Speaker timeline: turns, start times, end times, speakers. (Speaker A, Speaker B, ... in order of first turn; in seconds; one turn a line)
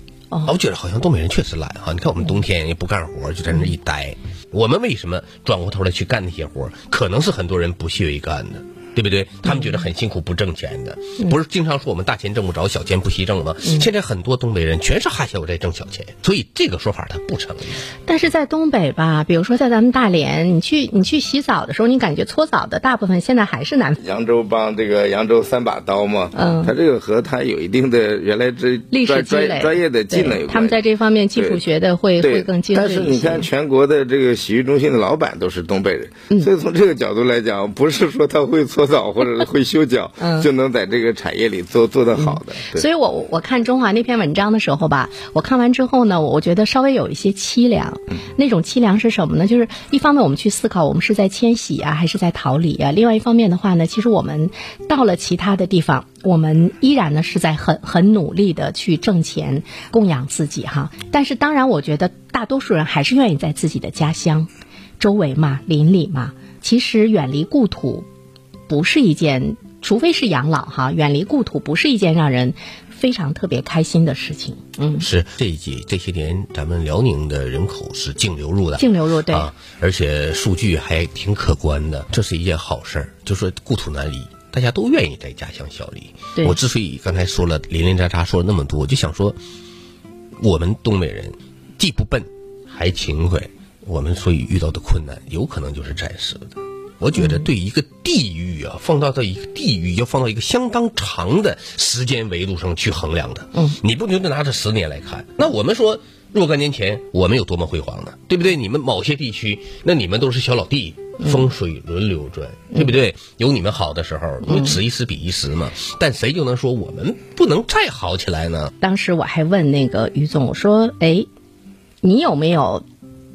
Speaker A: 0.4-17.8
Speaker B: 18.0-24.0
Speaker C: 24.0-30.8
Speaker B: 26.3-26.7
Speaker B: 28.9-33.5
Speaker C: 31.4-31.6
Speaker C: 32.2-42.9
Speaker B: 40.2-40.5
Speaker B: 42.1-64.5
Speaker B: 65.0-68.0
Speaker B: 68.7-75.1
Speaker A: 75.0-89.4
Speaker B: 78.8-79.5
Speaker A: 90.4-118.7
Speaker B: 97.2-97.5
Speaker B: 111.2-111.5
Speaker B: 114.4-114.8
Speaker B: 118.8-121.3
Speaker B: 122.0-122.8